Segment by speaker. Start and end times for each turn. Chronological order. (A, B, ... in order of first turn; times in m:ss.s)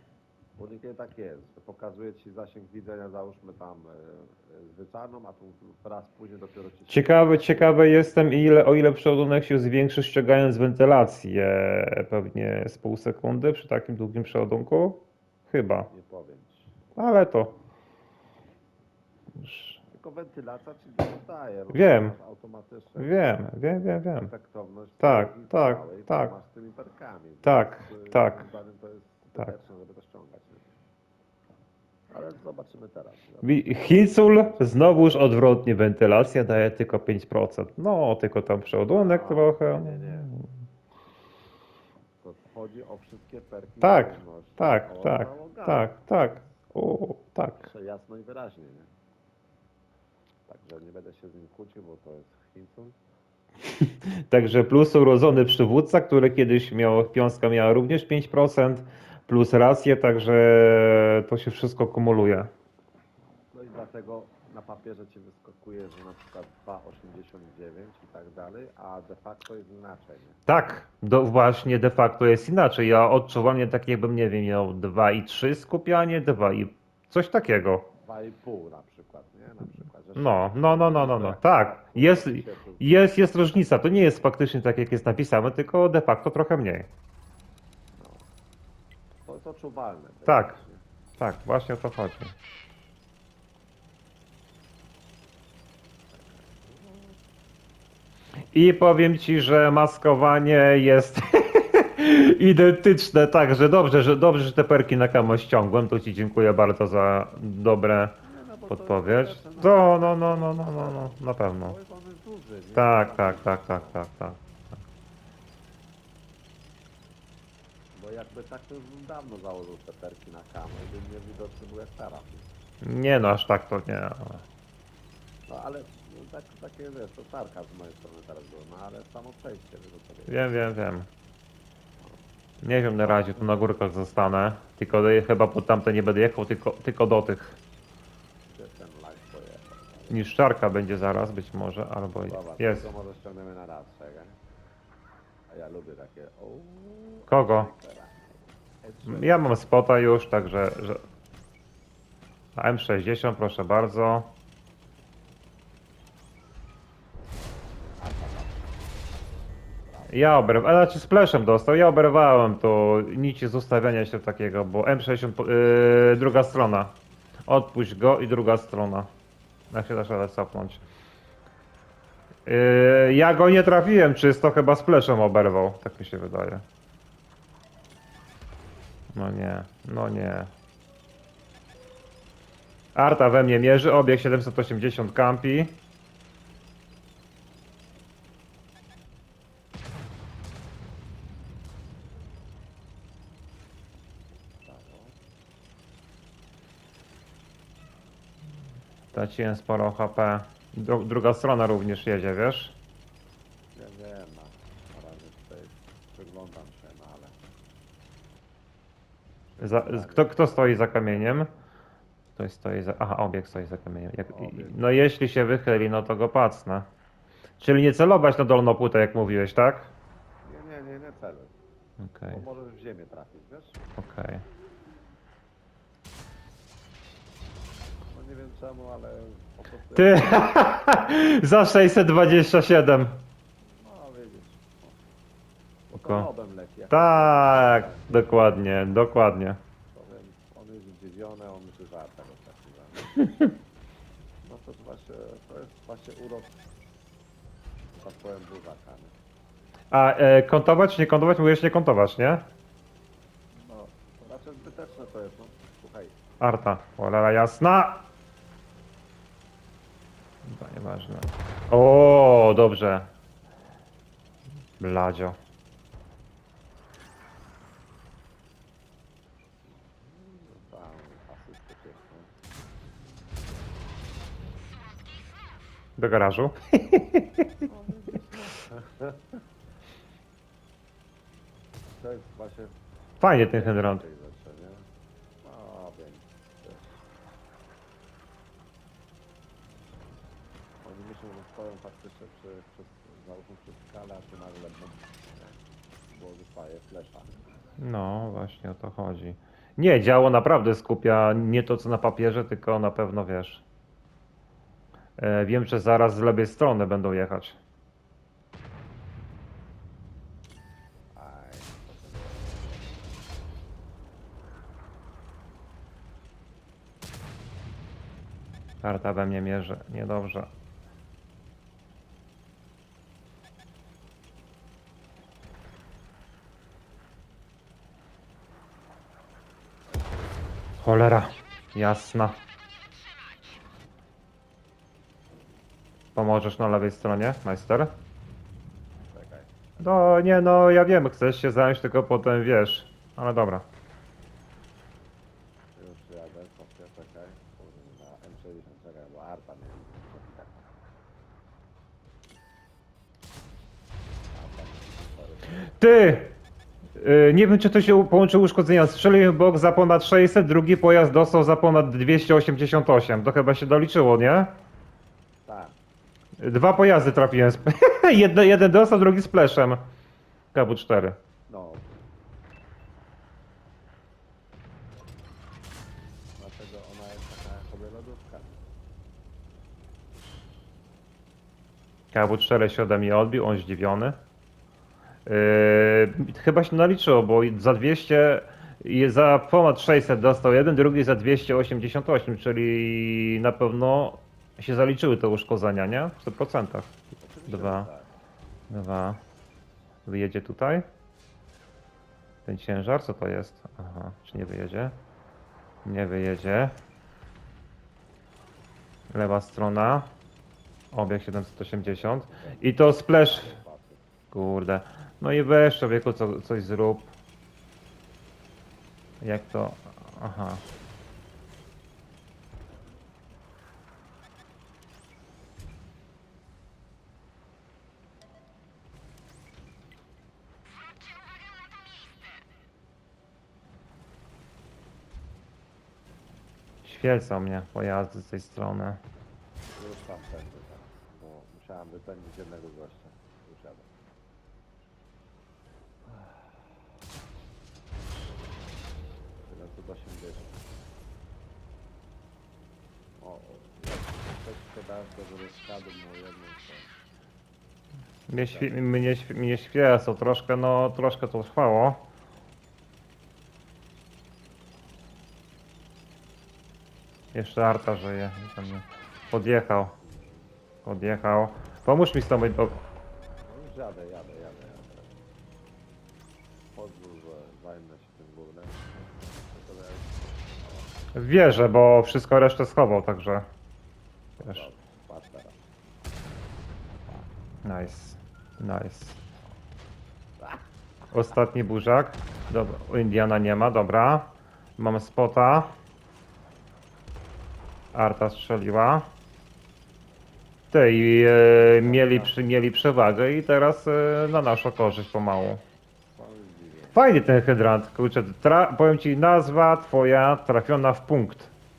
0:00.6-0:08.2 A
0:06.9-0:15.9 B
0:15.9-0:16.7 A
0:17.0-0:17.6 B
0:19.3-0:19.8 B
0:19.9-0:23.2 A
0:21.7-0:22.1 B
0:23.0-0:24.3 B
0:24.1-0:30.7 A
0:25.0-0:26.3 B
0:27.4-0:28.5 B
0:32.1-0:35.1 A
0:33.4-0:40.4 B
0:38.9-0:40.3 A
0:42.2-0:46.0 A
0:43.8-0:47.7 B
0:47.6-0:48.9 A
0:50.5-0:53.0 A
0:53.8-1:02.5 B
1:03.5-1:10.4 A
1:10.5-1:17.8 B
1:18.0-1:23.0 A
1:20.2-1:26.9 B
1:28.0-1:28.2 A
1:29.2-1:30.8 A
1:30.2-1:30.6 B
1:31.2-1:32.3 B
1:36.1-1:37.2 A
1:38.5-1:48.2 B
1:48.2-1:54.0 A
1:48.7-1:51.7 B
1:52.7-1:54.4 B
1:57.9-2:02.5 A
2:02.8-2:04.4 B
2:05.5-2:10.5 A
2:10.3-2:11.1 B
2:12.6-2:17.5 B
2:12.9-2:13.4 A
2:18.5-2:20.3 A
2:20.1-2:22.8 B
2:22.3-2:24.4 A
2:25.5-2:29.6 A
2:27.3-2:27.7 B
2:29.0-2:31.0 B
2:32.6-2:34.3 B
2:37.8-2:39.2 A
2:39.8-2:40.3 A
2:40.1-2:46.9 B
2:47.5-2:49.1 B
2:49.7-2:50.8 B
2:52.4-2:56.6 B
2:59.1-3:00.5 B
3:02.9-3:05.8 B
3:14.6-3:15.2 A
3:19.1-3:22.7 B
3:23.7-3:27.4 A
3:29.6-3:31.5 B
3:29.7-3:31.3 A
3:32.4-3:36.8 B
3:34.3-3:34.8 A
3:37.6-3:39.9 B
3:40.4-3:41.5 A
3:42.0-3:42.4 B
3:42.3-3:43.8 A
3:44.0-3:44.4 B
3:48.1-3:50.6 A
3:50.0-3:53.2 B
3:53.8-3:54.7 A
3:55.9-3:58.3 A
3:56.0-3:56.3 B
3:56.9-3:59.6 B
3:59.9-4:03.1 A
4:04.4-4:06.6 A
4:07.9-4:09.1 A
4:09.9-4:12.4 B
4:13.6-4:16.2 A
4:16.4-4:18.0 B
4:20.4-4:23.1 B
4:24.8-4:25.4 B
4:29.7-4:32.3 A
4:36.0-4:37.5 B
4:37.6-4:39.2 A
4:42.0-4:42.7 A
4:43.2-4:44.0 B
4:43.3-4:44.9 A
4:45.4-4:47.0 A
4:50.8-4:57.5 A
4:57.8-5:03.6 B
5:05.2-5:07.6 B
5:11.1-5:13.2 A
5:18.8-5:20.5 B
5:30.8-5:32.4 B
5:36.1-5:37.9 B
5:39.1-5:40.3 A
5:39.8-5:43.6 B
5:45.8-5:50.7 A
5:54.3-5:55.8 A
5:55.5-5:56.4 B
5:57.0-6:04.5 B
6:05.4-6:05.8 A
6:06.4-6:09.8 B
6:10.5-6:11.2 B
6:11.5-6:12.0 A
6:16.4-6:18.6 A
6:22.1-6:24.2 B
6:25.2-6:36.9 B
6:37.2-6:38.1 A
6:37.5-6:37.9 B
6:38.7-6:39.2 B
6:40.0-6:40.8 B
6:42.4-6:45.0 B
6:45.8-6:46.8 B
6:49.1-6:50.1 B
6:50.9-6:53.5 B
6:51.8-6:54.0 A
6:54.3-6:57.1 B
6:59.2-7:00.6 B
7:16.8-7:19.0 B
7:19.7-7:23.9 A
7:29.4-7:30.7 A
7:33.2-7:36.9 A
7:38.3-7:42.0 B
7:38.5-7:38.8 A
7:47.3-7:49.9 B
7:50.8-7:52.8 B
7:53.4-7:55.1 A
7:56.7-8:00.9 A
8:01.1-8:03.4 B
8:04.4-8:05.6 A
8:06.9-8:07.3 A
8:07.6-8:09.2 B
8:11.1-8:15.7 B
8:17.9-8:19.0 B
8:20.7-8:25.6 B
8:21.5-8:22.3 A
8:26.1-8:27.0 A
8:26.9-8:31.5 B